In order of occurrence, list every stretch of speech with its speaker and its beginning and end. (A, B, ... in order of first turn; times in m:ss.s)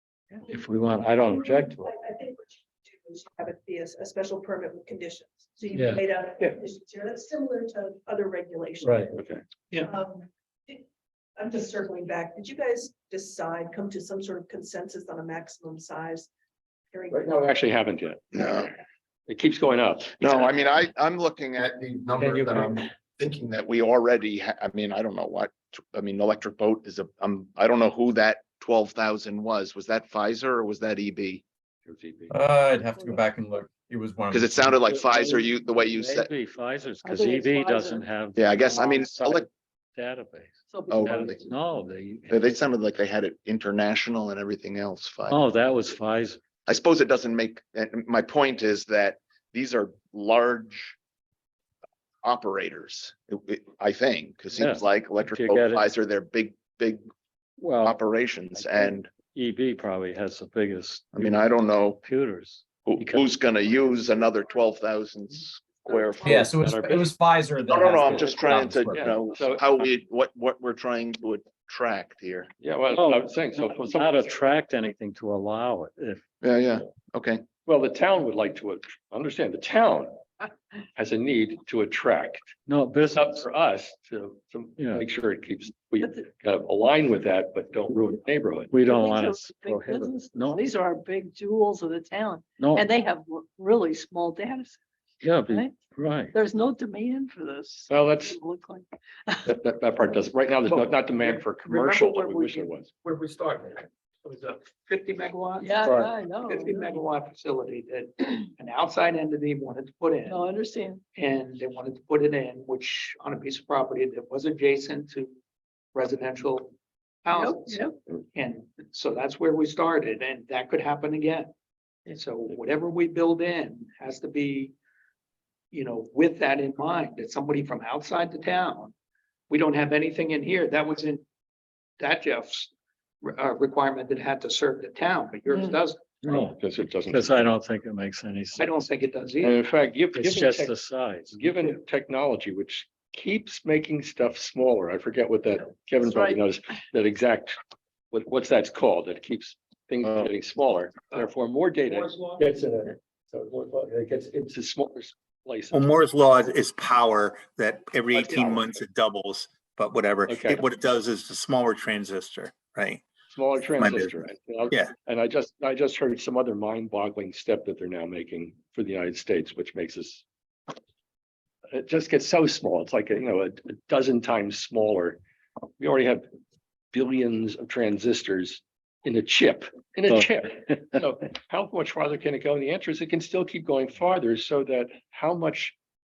0:00.5-0:01.9 A
0:01.3-0:09.2 B
0:05.7-0:06.0 A
0:08.8-0:09.1 A
0:09.2-0:09.4 C
0:09.8-0:10.8 B
0:11.4-0:16.3 B
0:16.9-0:17.4 B
0:17.1-0:18.6 C
0:18.3-0:18.7 D
0:19.3-0:20.2 C
0:20.2-0:31.4 D
0:22.2-0:22.8 A
0:31.9-0:32.3 C
0:32.3-0:35.0 E
0:34.3-0:36.3 D
0:34.9-0:42.5 A
0:37.0-0:38.1 F
0:38.4-0:39.5 D
0:40.7-0:41.5 F
0:40.9-0:41.4 D
0:42.3-0:45.4 D
0:45.3-0:46.4 A
0:46.7-0:51.0 D
0:52.2-0:57.0 D
0:54.6-0:55.8 A
0:57.6-0:58.0 A
0:57.8-0:59.1 D
0:58.8-1:03.5 A
1:01.1-1:02.0 D
1:02.8-1:06.5 D
1:05.8-1:06.4 F
1:06.2-1:09.2 E
1:06.6-1:07.1 C
1:07.7-1:12.5 D
1:08.2-1:08.8 A
1:08.9-1:09.6 C
1:12.6-1:14.4 C
1:12.9-1:16.2 A
1:16.4-1:17.4 D
1:17.7-1:20.1 C
1:21.0-1:22.6 C
1:22.7-1:23.5 A
1:23.1-1:28.7 C
1:24.8-1:25.0 A
1:28.7-1:30.6 A
1:28.8-1:34.8 F
1:32.6-1:32.9 A
1:35.2-1:36.4 A
1:35.5-1:35.8 F
1:36.3-1:39.6 F
1:37.9-1:38.4 C
1:39.5-1:42.9 C
1:40.7-1:50.4 G
1:45.6-1:47.0 F
1:50.3-1:51.0 F
1:51.2-1:55.3 G
1:55.9-1:56.7 G
1:57.2-1:57.8 G
1:57.3-1:58.0 F
1:58.4-2:01.5 G
2:02.1-2:04.7 G
2:05.7-2:08.9 G
2:09.5-2:11.2 G
2:12.0-2:12.7 G
2:13.2-2:16.2 G
2:16.2-2:18.7 A
2:16.2-2:17.5 C
2:18.6-2:19.6 G
2:19.4-2:27.6 C
2:20.1-2:21.4 A
2:26.0-2:26.4 F
2:28.1-2:35.9 C
2:31.8-2:32.5 G
2:35.7-2:43.1 H
2:38.1-2:38.8 C
2:40.3-2:40.7 C
2:43.3-2:50.2 C
2:43.8-2:45.0 H
2:51.7-2:55.2 C
2:55.8-2:56.3 C
2:56.9-3:05.8 C